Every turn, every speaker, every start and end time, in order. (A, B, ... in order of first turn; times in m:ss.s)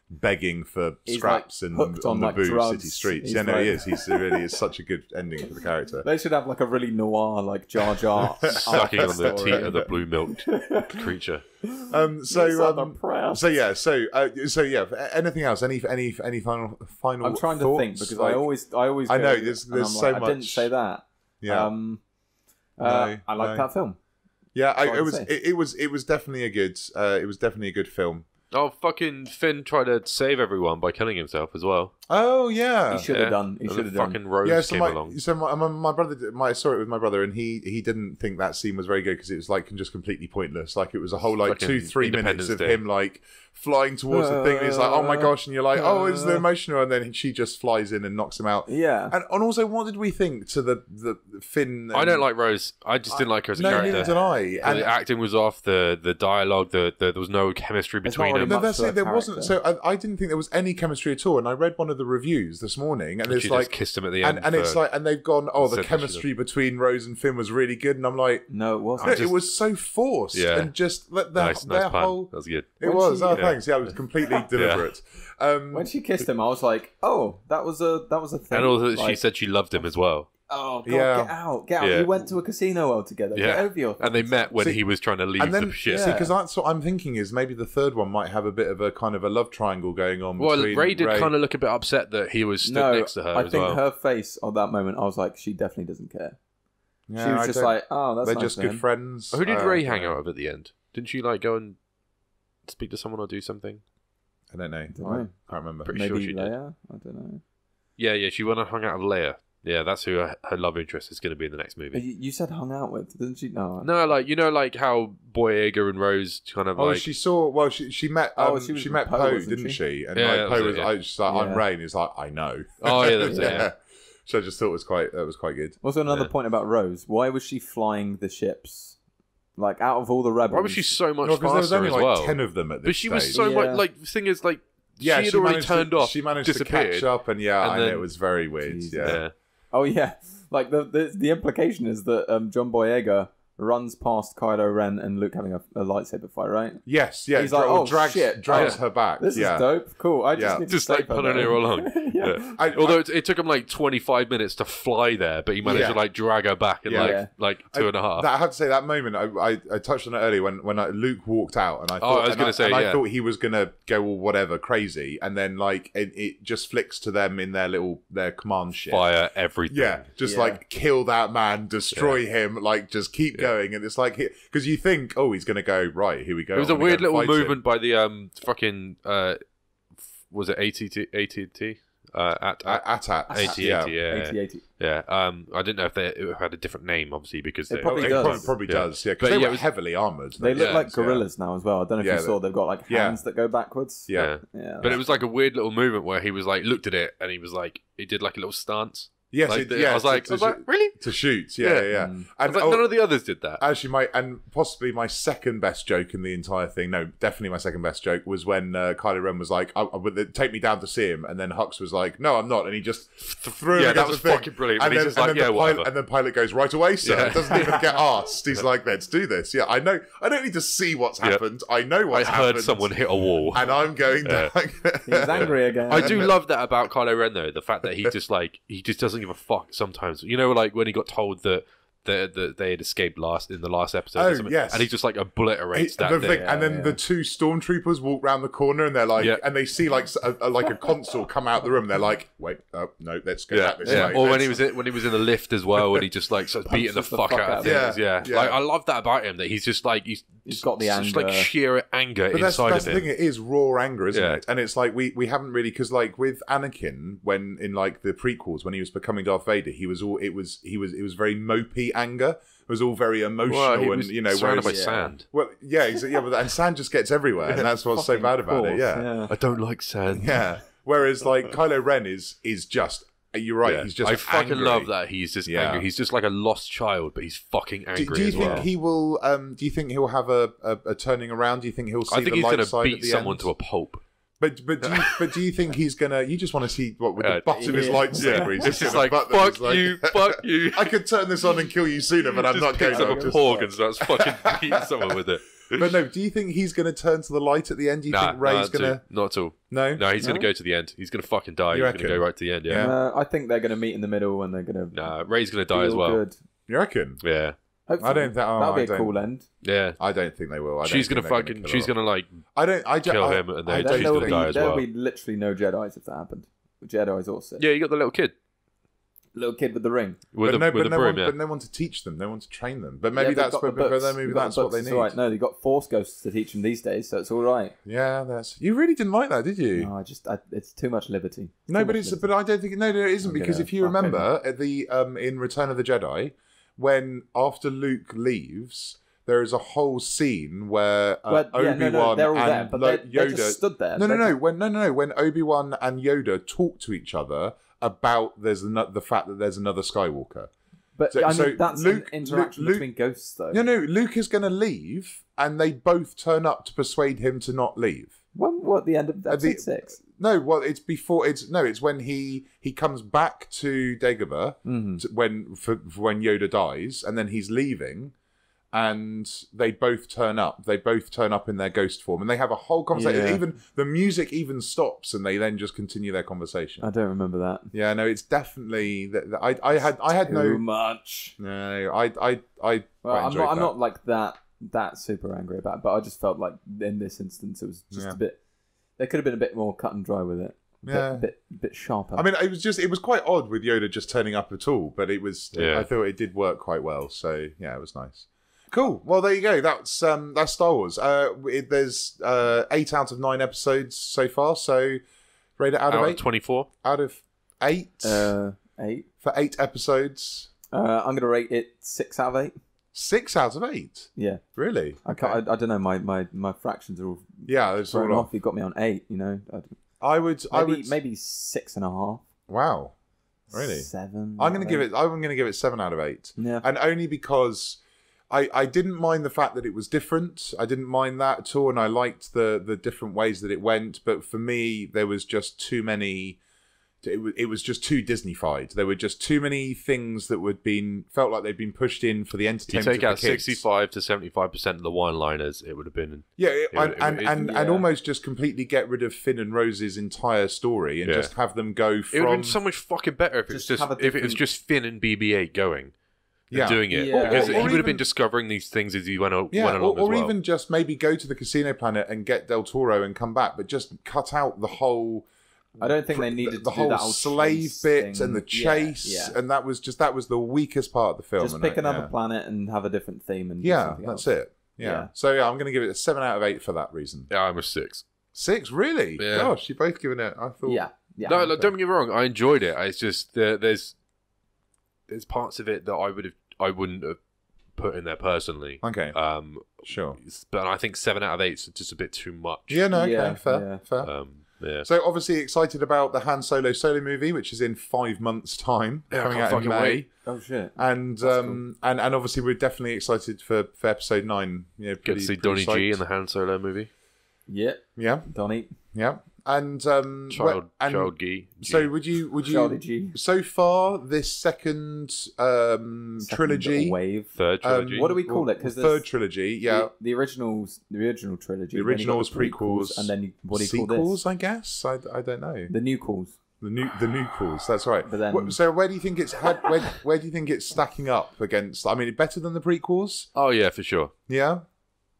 0:00.1-0:06.1 A
0:01.0-0:04.4 B
0:06.0-0:11.1 B
0:08.1-0:09.9 A
0:08.5-0:11.4 C
0:11.6-0:13.4 B
0:11.9-0:18.5 A
0:17.2-0:22.0 B
0:19.1-0:20.7 A
0:21.4-0:21.7 A
0:22.8-0:24.0 B
0:22.8-0:23.7 A
0:24.5-0:28.3 A
0:24.8-0:25.3 B
0:28.5-0:31.9 C
0:32.1-0:33.1 A
0:32.9-0:34.2 B
0:33.1-0:35.2 C
0:34.4-0:52.2 A
0:41.4-0:42.8 C
0:44.1-0:46.4 B
0:48.7-0:49.1 B
0:51.9-0:58.6 C
0:53.2-0:54.9 A
0:53.6-0:54.8 B
0:58.0-0:59.5 B
0:58.1-1:15.9 A
1:03.2-1:04.8 C
1:05.6-1:06.2 C
1:08.5-1:09.2 B
1:09.0-1:09.5 C
1:10.3-1:10.7 C
1:11.3-1:12.7 C
1:12.8-1:13.4 B
1:13.3-1:13.9 C
1:14.5-1:14.9 C
1:15.7-1:19.2 B
1:18.5-1:20.3 C
1:20.5-1:24.5 B
1:20.8-1:21.3 A
1:21.8-1:22.1 C
1:23.3-1:26.1 C
1:24.6-1:24.8 A
1:25.4-1:31.3 A
1:25.9-1:26.3 B
1:30.4-1:33.8 C
1:32.6-1:36.4 B
1:37.1-1:40.2 A
1:37.2-1:38.8 B
1:39.3-1:41.8 C
1:42.6-1:43.8 C
1:44.5-1:45.9 A
1:44.9-1:45.3 B
1:45.8-1:46.5 C
1:45.9-1:47.4 B
1:48.0-1:52.0 C
1:51.9-1:53.9 B
1:53.8-1:57.0 C
1:56.8-2:05.8 A
1:58.4-1:59.8 B
2:00.2-2:00.9 C
2:01.3-2:01.6 B
2:02.8-2:03.7 C
2:03.2-2:03.6 B
2:05.8-2:09.0 B
2:09.6-2:10.9 B
2:10.5-2:18.1 C
2:11.2-2:13.4 A
2:13.3-2:13.8 B
2:15.0-2:19.2 A
2:18.6-2:19.2 B
2:19.0-2:19.3 C
2:19.7-2:26.8 B
2:26.8-2:29.7 A
2:27.3-2:32.6 B
2:28.5-2:28.8 C
2:30.3-2:30.6 A
2:30.4-2:38.3 C
2:32.6-2:33.0 A
2:35.6-2:36.0 A
2:35.6-2:35.9 B
2:36.8-2:49.1 A
2:36.9-2:37.3 B
2:42.0-2:43.0 C
2:48.9-2:50.0 C
2:49.7-2:57.6 A
2:50.2-2:50.6 B
2:51.9-2:52.2 C
2:56.5-2:59.4 C
3:00.2-3:09.7 C
3:02.6-3:04.0 A
3:03.3-3:04.6 B
3:07.7-3:08.6 B
3:07.8-3:11.2 A
3:10.4-3:15.0 B
3:10.5-3:10.9 C
3:12.0-3:13.2 A
3:14.1-3:14.3 A
3:14.1-3:21.9 C
3:19.3-3:23.0 A
3:21.9-3:22.3 B
3:22.4-3:23.6 C
3:23.6-3:46.4 A
3:33.2-3:35.9 C
3:37.0-3:37.9 C
3:42.1-3:43.7 C
3:44.2-3:44.5 C
3:45.0-3:46.3 B
3:45.3-3:56.5 C
3:54.1-3:54.9 A
3:55.7-4:05.2 A
3:56.2-3:57.0 B
4:03.5-4:13.1 C
4:03.8-4:04.3 B
4:05.7-4:06.0 A
4:06.6-4:07.9 B
4:07.6-4:08.6 A
4:10.4-4:11.5 B
4:12.3-4:29.1 A
4:14.1-4:14.4 C
4:23.5-4:25.2 C
4:24.6-4:25.1 B
4:27.5-4:29.3 B
4:29.3-4:30.5 C
4:30.1-4:34.9 A
4:33.6-4:38.7 C
4:35.4-4:35.9 A
4:37.9-4:43.5 A
4:38.4-4:38.6 B
4:42.1-4:44.0 C
4:44.4-4:59.0 A
4:44.8-4:45.3 C
4:47.2-4:51.0 C
4:47.5-4:48.9 B
4:52.3-4:55.9 C
4:52.9-4:53.7 B
4:58.1-5:02.9 C
4:59.7-5:00.1 A
5:00.2-5:00.5 B
5:01.7-5:02.9 A
5:02.7-5:05.1 B
5:04.9-5:06.2 C
5:05.7-5:06.4 B
5:06.7-5:07.2 A
5:07.2-5:07.6 C
5:07.9-5:09.4 B
5:08.0-5:09.1 A
5:09.6-5:10.0 C
5:10.0-5:11.9 A
5:10.8-5:12.4 C
5:12.5-5:14.6 A
5:13.0-5:14.8 C
5:13.8-5:17.6 B
5:17.6-5:18.3 C
5:19.3-5:20.2 B
5:20.3-5:21.3 C
5:20.4-5:25.1 A
5:23.2-5:27.7 B
5:27.8-5:29.9 A
5:29.8-5:32.3 B
5:31.7-5:50.5 A
5:33.2-5:34.3 B
5:41.3-5:44.3 B
5:51.0-5:53.6 B
5:51.1-5:52.9 A
5:53.5-5:58.2 A
5:58.3-6:00.0 B
5:59.3-6:08.1 A
6:04.6-6:05.0 B
6:08.7-6:16.9 A
6:12.9-6:13.4 B
6:16.8-6:17.7 B
6:17.7-6:20.6 A
6:20.2-6:21.4 B
6:21.4-6:23.7 A
6:23.0-6:28.4 B
6:27.9-6:28.2 A
6:29.0-6:32.2 B
6:30.8-6:31.3 A
6:32.1-6:45.0 A
6:35.5-6:35.9 C
6:45.6-6:48.3 A
6:45.9-6:46.7 C
6:48.0-6:49.1 B
6:49.2-6:50.5 A
6:50.7-6:52.5 B
6:52.9-6:55.4 A
6:54.2-6:54.4 B
6:55.0-6:59.8 B
6:57.4-6:58.3 A
7:00.0-7:01.0 A
7:00.5-7:02.2 B
7:02.5-7:02.9 A
7:03.5-7:04.9 B
7:03.5-7:16.4 A
7:06.4-7:06.6 B
7:17.0-7:23.6 A
7:22.7-7:27.4 C
7:26.4-7:32.6 A
7:27.4-7:27.8 B
7:31.0-7:31.3 C
7:32.1-7:35.9 C
7:33.5-7:34.4 B
7:36.5-7:38.0 A
7:36.5-7:40.3 C
7:36.9-7:37.8 B
7:39.5-7:52.1 A
7:45.8-7:49.4 B
7:51.4-7:54.2 B
7:53.6-7:57.3 A
7:54.8-7:55.1 B
7:57.3-7:58.0 C
7:58.3-8:00.8 A
7:59.2-7:59.5 C
8:00.6-8:01.7 B
8:01.2-8:03.9 C
8:05.1-8:07.2 C
8:07.7-8:12.9 C
8:08.8-8:09.2 A
8:09.8-8:10.2 A
8:12.7-8:14.1 A
8:12.9-8:13.8 B
8:14.0-8:14.9 C
8:14.8-8:20.1 A
8:19.1-8:20.0 C
8:20.2-8:21.6 B
8:20.8-8:26.0 A
8:25.0-8:26.9 C
8:27.5-8:28.7 B
8:28.0-8:28.3 A
8:28.8-8:37.0 A
8:30.3-8:31.9 C
8:32.4-8:33.2 B
8:36.2-8:37.3 B
8:37.4-8:38.1 C
8:37.6-8:39.9 A
8:37.9-8:39.0 B
8:39.7-8:44.2 B
8:41.7-8:45.7 A
8:45.7-8:46.4 B
8:46.6-8:53.3 A
8:48.1-8:48.6 B
8:53.3-8:54.1 C
8:54.3-8:54.6 A